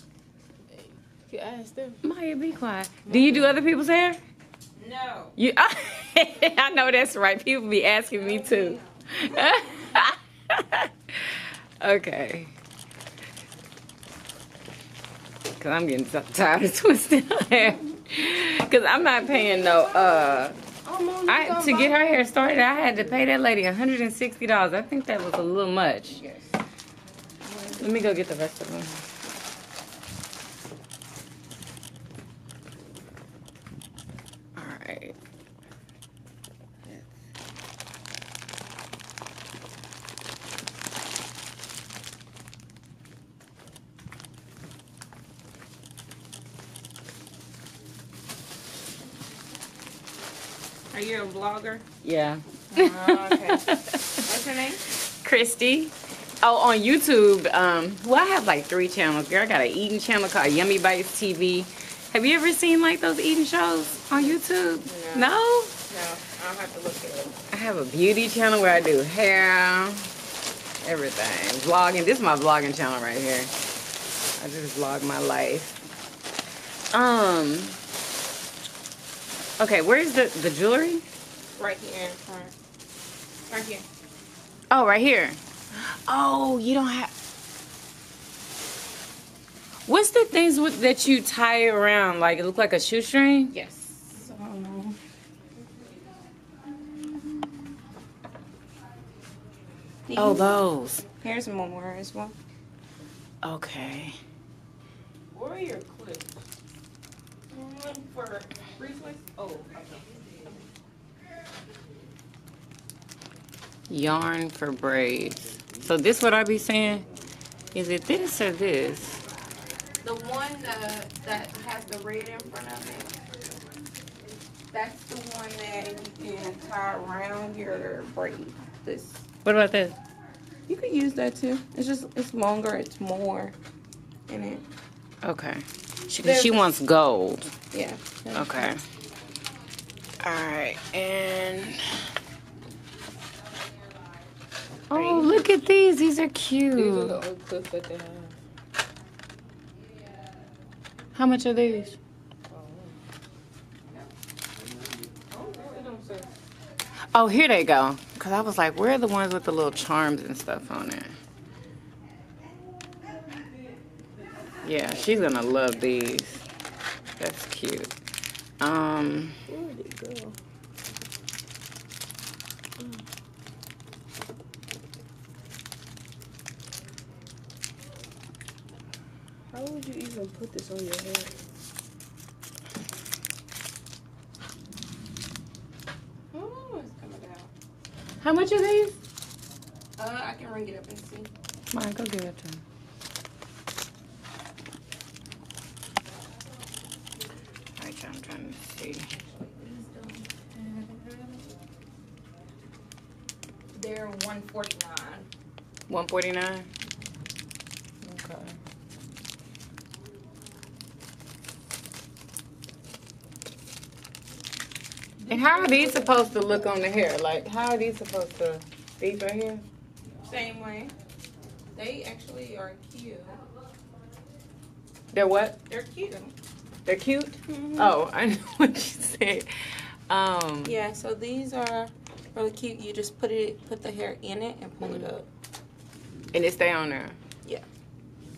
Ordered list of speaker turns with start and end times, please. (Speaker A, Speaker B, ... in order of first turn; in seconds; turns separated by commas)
Speaker A: 1.2-2.0, Speaker B: 2.0-4.2, Speaker C: 3.1-3.5, Speaker C: 4.8-5.3, Speaker B: 5.4-12.5, Speaker C: 8.1-9.9, Speaker B: 15.6-20.6, Speaker C: 19.3-22.1, Speaker A: 20.9-22.1, Speaker B: 21.3-26.2, Speaker C: 26.1-26.5, Speaker B: 27.8-29.0, Speaker B: 34.5-35.1, Speaker C: 50.9-51.8, Speaker B: 52.0-54.2, Speaker C: 52.7-54.8, Speaker B: 55.2-65.7, Speaker C: 64.2-67.3, Speaker B: 67.5-70.1, Speaker B: 70.8-73.5, Speaker B: 74.4-75.8, Speaker B: 76.9-77.8, Speaker B: 79.6-81.0, Speaker C: 81.6-82.5, Speaker C: 83.5-83.8, Speaker B: 84.7-87.1, Speaker B: 89.9-93.5, Speaker C: 93.5-95.0, Speaker C: 100.1-102.3, Speaker B: 100.2-101.0, Speaker B: 103.4-104.2, Speaker A: 105.3-106.2, Speaker C: 107.5-109.8, Speaker B: 113.9-117.1, Speaker B: 117.7-119.2, Speaker C: 120.0-123.6, Speaker C: 124.7-129.3, Speaker B: 129.4-130.0, Speaker C: 130.7-133.5, Speaker C: 134.3-134.6, Speaker B: 135.2-137.5, Speaker C: 136.1-136.7, Speaker C: 137.7-138.8, Speaker B: 138.3-138.8, Speaker B: 140.2-141.8, Speaker B: 144.9-147.2, Speaker C: 144.9-145.4, Speaker A: 146.7-148.3, Speaker B: 151.1-152.0, Speaker A: 152.5-152.9, Speaker A: 155.4-156.2, Speaker C: 155.5-156.0, Speaker B: 157.1-161.1, Speaker B: 164.6-166.4, Speaker B: 167.2-167.9, Speaker B: 168.6-169.4, Speaker A: 169.5-170.4, Speaker A: 172.8-173.0, Speaker A: 179.5-181.4, Speaker C: 186.3-187.5, Speaker B: 188.2-189.0, Speaker C: 190.0-191.3, Speaker B: 191.7-192.6, Speaker B: 197.8-199.1, Speaker C: 199.1-201.4, Speaker C: 203.7-205.3, Speaker B: 205.9-206.7, Speaker B: 208.0-208.5, Speaker B: 215.3-219.6, Speaker C: 215.5-216.3, Speaker C: 220.3-220.9, Speaker C: 221.7-223.4, Speaker B: 225.1-225.6, Speaker C: 225.7-226.3, Speaker B: 226.8-229.5, Speaker C: 227.5-227.9, Speaker B: 230.1-230.8, Speaker C: 230.6-235.3, Speaker B: 234.8-235.1, Speaker B: 236.3-237.2